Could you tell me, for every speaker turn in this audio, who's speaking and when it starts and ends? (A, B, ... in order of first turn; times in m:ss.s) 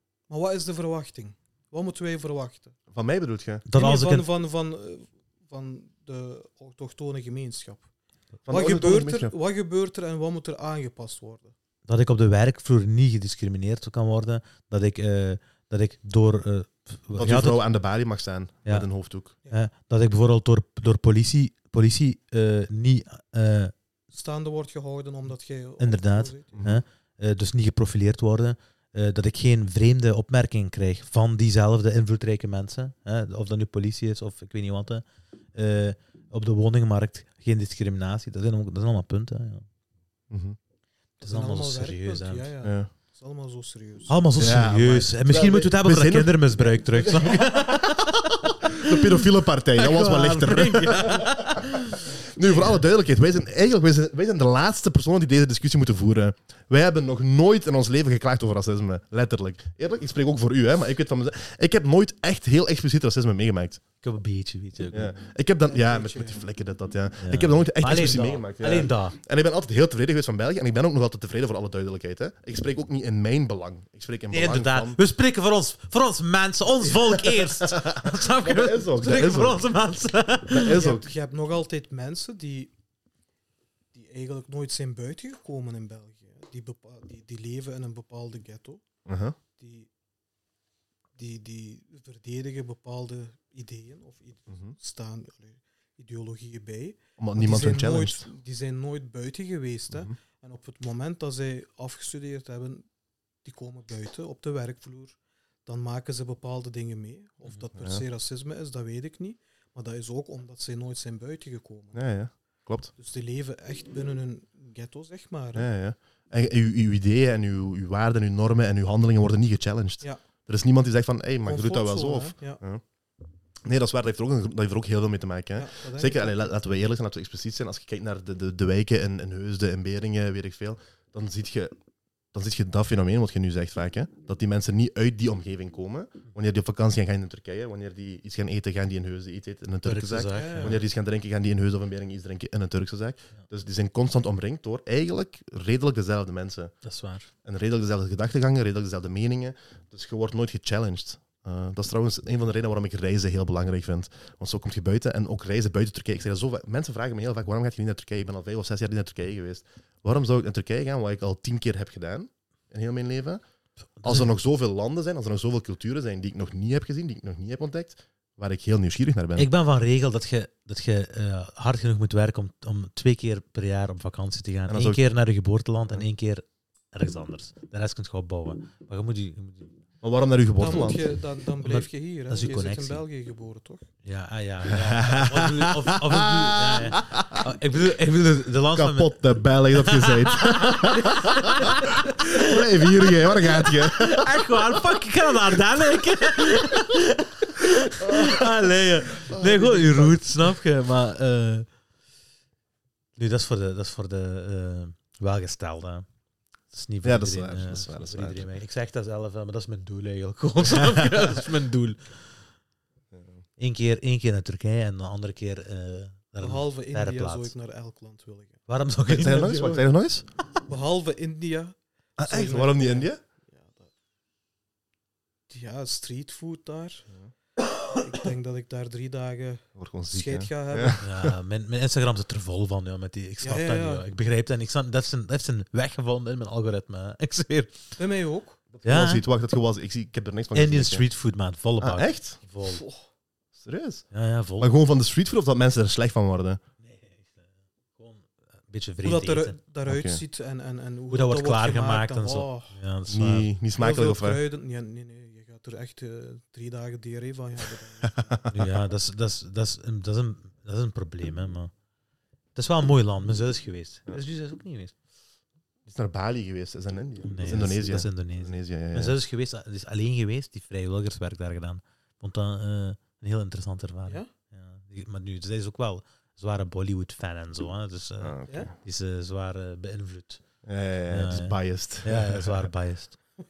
0:00.3-0:02.8 A
0:02.9-0:03.6 B
0:03.7-0:04.3 C
0:03.7-0:07.9 A
0:08.4-0:09.3 B
0:08.5-0:11.5 A
0:11.9-0:17.6 C
0:17.1-0:19.3 B
0:19.5-0:23.7 C
0:24.1-0:26.5 A
0:25.8-0:39.6 C
0:26.5-0:26.8 B
0:40.3-0:40.6 B
0:41.2-0:42.5 C
0:41.2-0:44.2 A
0:42.6-0:42.9 B
0:44.1-0:52.8 C
0:44.4-1:03.8 B
0:47.0-0:47.5 A
1:04.0-1:05.1 C
1:04.9-1:15.0 B
1:05.7-1:06.5 A
1:07.2-1:09.2 C
1:14.3-1:20.8 C
1:16.9-1:19.6 B
1:20.5-1:21.1 B
1:20.7-1:22.7 A
1:23.9-1:28.8 A
1:29.0-1:29.4 B
1:29.6-1:29.9 A
1:31.1-1:42.9 A
1:34.5-1:34.8 B
1:37.2-1:38.3 B
1:43.4-1:52.0 A
1:47.7-1:48.0 B
1:51.9-1:52.9 B
1:53.0-1:55.7 A
1:55.5-2:02.8 B
2:01.4-2:02.6 A
2:03.6-2:11.7 B
2:05.6-2:06.5 A
2:12.3-2:26.7 B
2:19.8-2:20.8 C
2:20.3-2:20.8 A
2:26.8-2:27.3 C
2:27.4-2:43.4 B
2:44.0-2:44.3 C
2:44.0-2:49.5 B
2:49.4-2:59.7 C
2:54.7-2:55.0 B
3:00.0-3:01.0 B
3:00.6-3:03.9 A
3:01.6-3:03.0 C
3:04.0-3:21.6 C
3:04.7-3:07.5 B
3:08.7-3:14.5 B
3:18.0-3:18.4 B
3:19.2-3:20.2 B
3:23.2-3:26.0 C
3:26.7-3:32.2 C
3:27.0-3:28.5 B
3:30.8-3:31.4 B
3:33.1-3:33.4 B
3:33.6-3:37.5 C
3:36.4-3:38.6 A
3:38.7-3:39.8 C
3:39.1-3:40.3 B
3:40.6-3:43.9 A
3:42.2-3:43.2 B
3:45.5-3:47.1 A
3:47.9-3:51.0 A
3:49.8-3:51.3 B
3:51.0-3:58.0 C
3:53.4-3:54.0 A
3:58.0-3:58.6 A
3:58.7-4:01.0 B
3:58.8-3:59.2 C
4:00.5-4:02.8 C
4:01.8-4:02.4 B
4:02.7-4:03.0 A
4:03.6-4:04.0 B
4:04.1-4:04.7 C
4:04.6-4:06.6 B
4:06.8-4:07.4 C
4:08.0-4:09.6 C
4:09.0-4:12.8 A
4:09.8-4:10.2 B
4:11.1-4:13.5 C
4:13.1-4:14.4 B
4:13.8-4:18.5 A
4:18.2-4:18.5 B
4:18.5-4:21.7 C
4:22.5-4:24.9 C
4:25.9-4:29.2 B
4:27.2-4:40.4 C
4:38.2-4:38.7 B
4:40.6-4:42.7 B
4:41.1-4:43.2 C